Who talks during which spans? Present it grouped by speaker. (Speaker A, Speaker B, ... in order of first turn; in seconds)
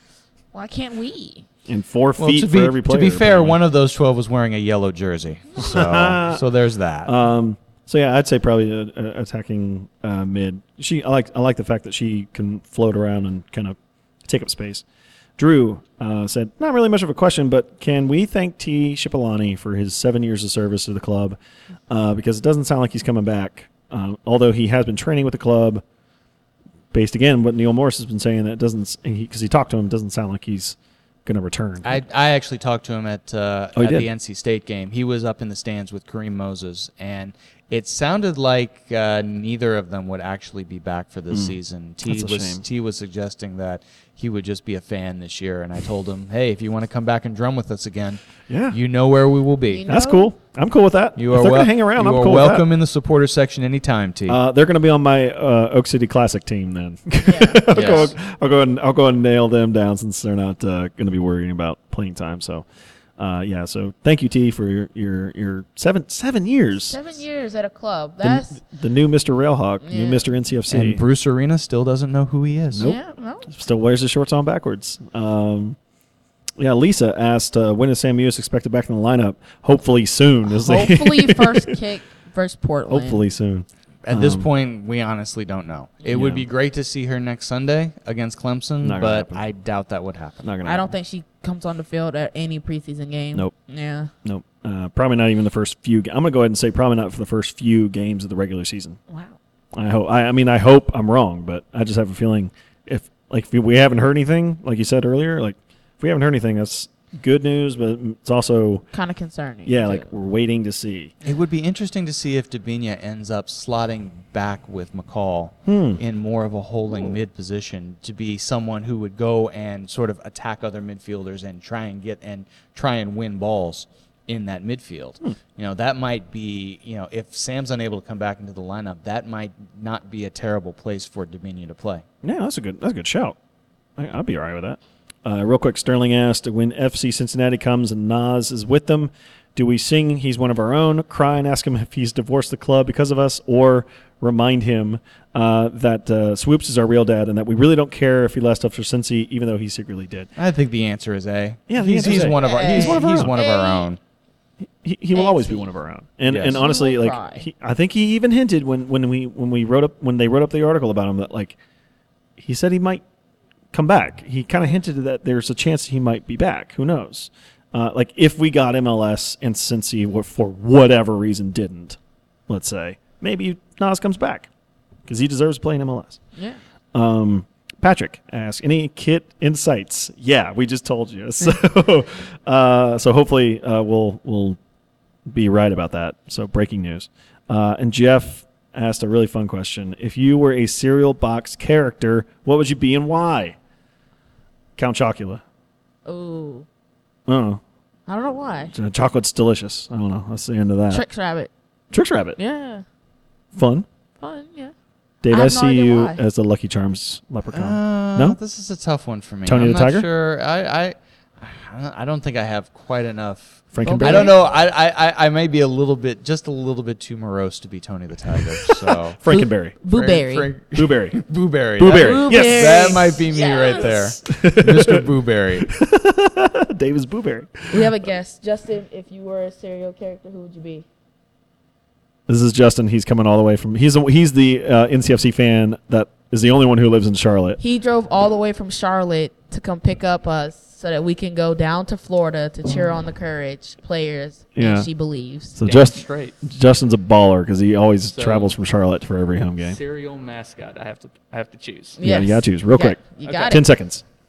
Speaker A: 0.5-1.5, 49.7-50.3, 57.2-58.1, 66.9-68.6, 69.8-70.2, 72.8-73.5, 80.5-83.2, 90.6-94.1, 99.1-99.3, 108.9-110.1, 152.1-153.9, 155.1-155.7, 156.5-157.5, 196.1-196.7, 198.1-198.7, 200.9-201.5, 202.4-202.8, 204.2-204.7, 205.3-206.2, 213.8-214.4, 219.3-220.5, 221.9-224.0, 227.7-230.9, 237.6-245.6, 252.0-253.7
Speaker B: 1.7-3.6, 5.6-6.4, 7.0-14.8, 15.4-21.4, 21.9-25.8, 26.9-32.0, 33.8-34.1, 41.3-42.6, 48.5-48.8, 49.9-52.7, 54.3-62.6, 63.2-67.0, 68.2-71.0, 72.7-75.8, 76.6-81.8, 82.9-84.5, 86.1-86.4, 88.8-89.4, 90.4-90.9, 94.2-99.0, 99.8-108.9, 109.7-111.1, 115.7-116.0, 132.2-133.4, 134.0-150.3, 151.7-153.3, 154.7-161.6, 162.4-163.0, 163.7-174.5, 175.1-176.2, 176.9-184.6, 185.3-193.6, 194.8-195.4, 197.3-197.6, 198.7-201.0, 201.9-202.4, 203.5-203.9, 205.2-208.4, 209.4-210.1, 213.7-214.3, 219.1-219.8, 220.7-221.2, 221.8-223.2, 223.8-225.1, 225.6-228.1, 232.3-237.6, 244.6-244.9, 245.6-249.8, 252.0-254.0
Speaker C: 2.2-7.1, 31.9-49.9, 51.2-54.4, 57.7-58.1, 70.7-72.9, 84.0-90.5, 111.2-132.1, 150.4-154.0, 156.3-156.6, 207.5-219.2, 219.9-225.7
Speaker D: 245.6-246.3, 248.1-248.5, 249.6-252.0, 253.3-253.5